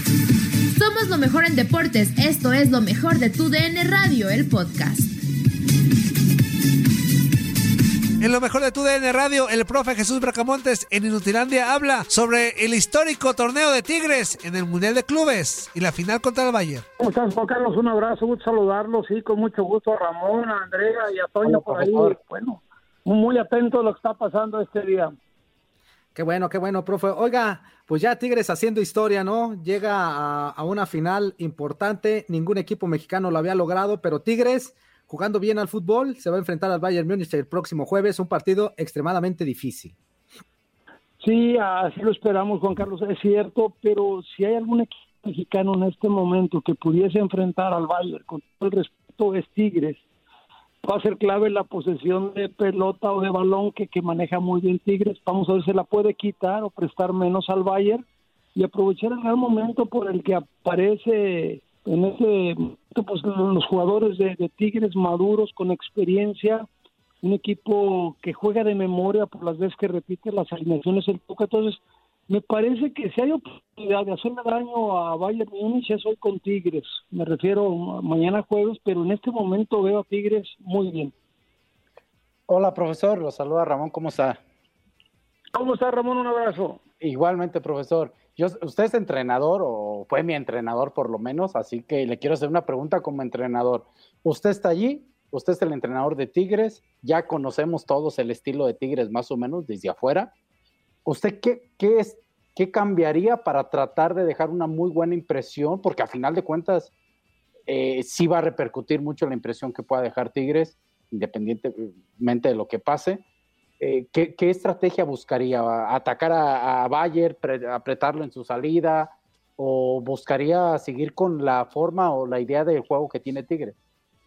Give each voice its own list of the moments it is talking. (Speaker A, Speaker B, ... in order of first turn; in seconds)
Speaker A: 0.7-5.2
Speaker B: 8.2-16.8
Speaker C: 17.0-25.1, 41.2-50.0, 50.8-58.0, 58.5-66.7, 67.2-81.1, 85.5-86.8
Speaker D: 21.4-22.2, 82.5-84.4, 87.0-100.3, 101.1-106.9, 107.7-113.2, 113.8-123.8
Speaker E: 26.1-40.0